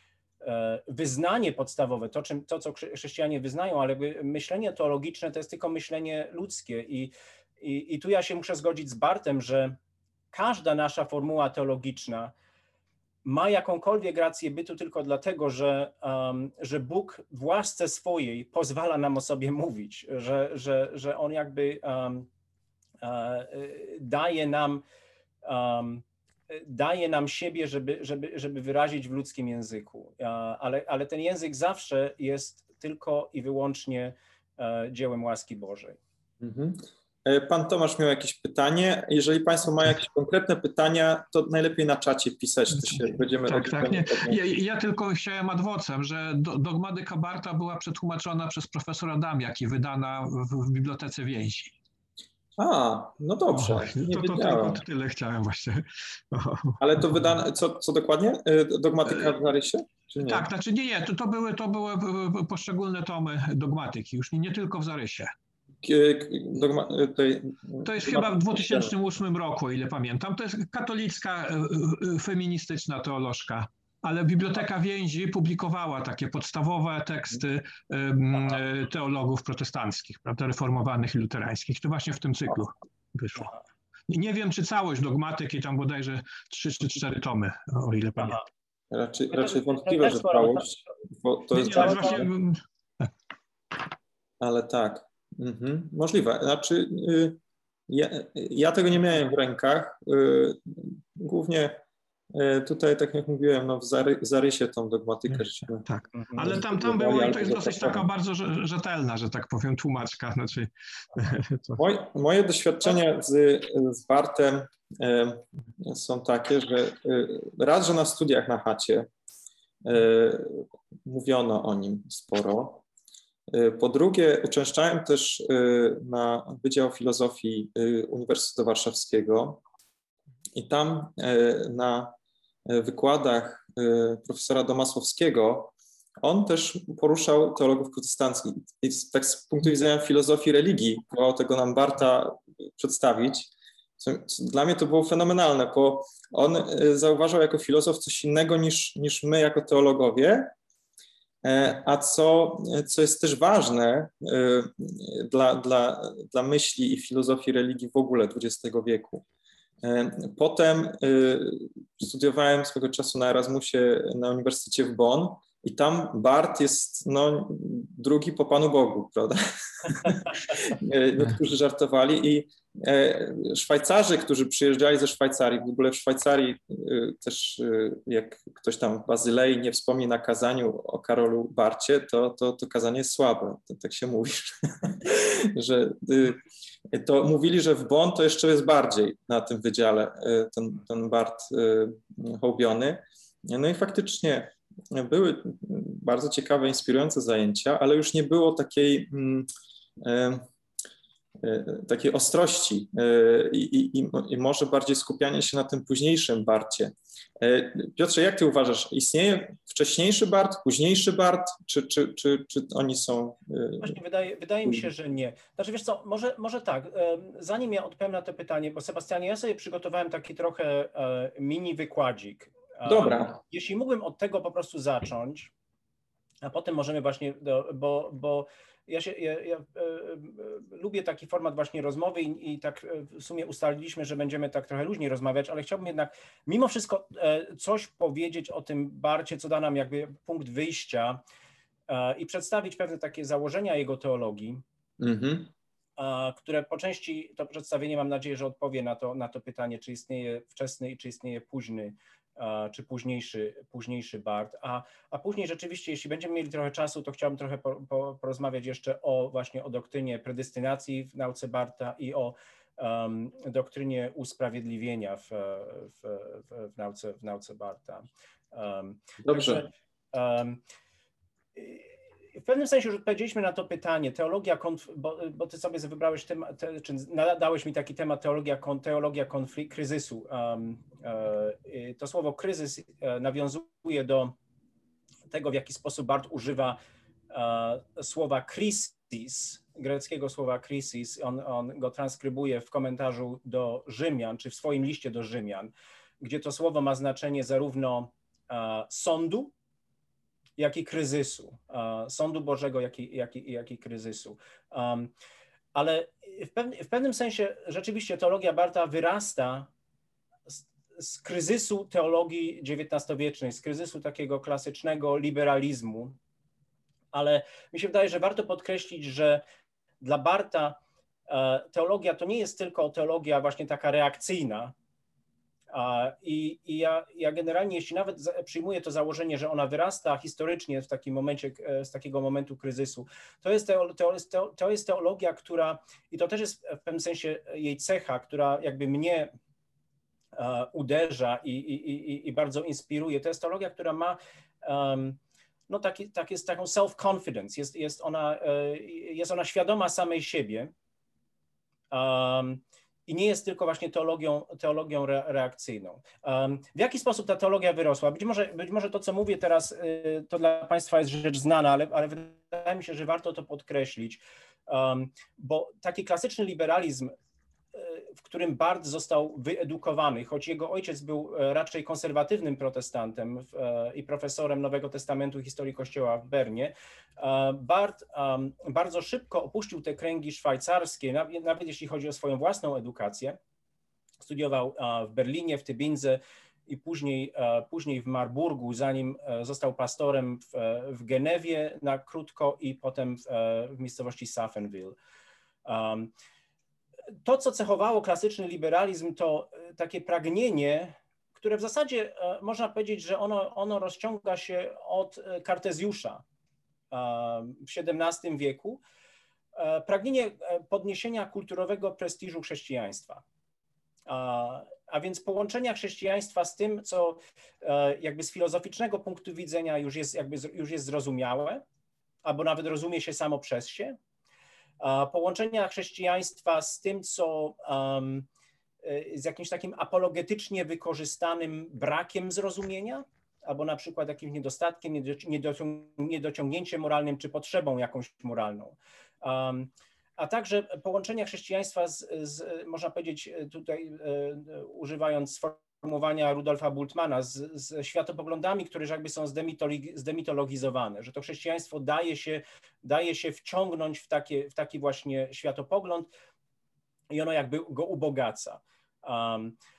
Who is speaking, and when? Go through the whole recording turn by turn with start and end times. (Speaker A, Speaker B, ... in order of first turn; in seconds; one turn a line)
Speaker A: 0.4-9.8
Speaker A: 10.3-12.3
Speaker A: 13.2-22.3
Speaker A: 23.0-24.8
Speaker A: 25.4-36.0
Speaker B: 36.4-44.4
Speaker C: 42.8-51.7
Speaker B: 52.6-54.8
Speaker C: 53.5-57.3
Speaker B: 56.8-60.5
Speaker C: 60.2-65.3
Speaker B: 65.8-68.9
Speaker C: 67.8-83.5
Speaker C: 84.1-88.4
Speaker B: 88.9-92.3
Speaker A: 89.7-90.6
Speaker C: 91.5-92.6
Speaker A: 91.7-92.1
Speaker B: 94.4-105.9
Speaker C: 105.8-111.8
Speaker B: 106.4-108.1
Speaker B: 111.8-119.1
Speaker B: 119.8-122.8
Speaker B: 123.5-129.6
Speaker B: 130.5-132.1
Speaker B: 132.7-150.5
Speaker B: 151.4-159.2
Speaker B: 159.8-199.5
Speaker B: 200.0-200.5
Speaker B: 201.4-214.0
Speaker A: 213.8-225.5
Speaker B: 222.9-223.4
Speaker A: 226.4-241.2
Speaker A: 241.9-244.6
Speaker B: 245.0-245.5
Speaker A: 246.0-270.6
Speaker B: 269.2-269.6
Speaker A: 271.6-284.4
Speaker A: 285.3-286.8
Speaker A: 287.3-299.5
Speaker A: 300.6-305.1
Speaker A: 305.7-309.7
Speaker A: 310.5-316.2
Speaker A: 317.1-319.4
Speaker A: 320.0-324.7
Speaker A: 325.7-339.3
Speaker A: 340.4-345.2
Speaker A: 345.7-350.7
Speaker A: 351.9-367.1
Speaker A: 367.8-383.4
Speaker A: 384.2-395.0
Speaker A: 395.6-396.1
Speaker A: 397.2-406.2
Speaker A: 406.9-408.8
Speaker A: 409.5-413.2
Speaker A: 414.1-421.6
Speaker A: 422.2-424.0
Speaker A: 424.8-428.3
Speaker A: 428.8-456.1
Speaker A: 457.1-459.6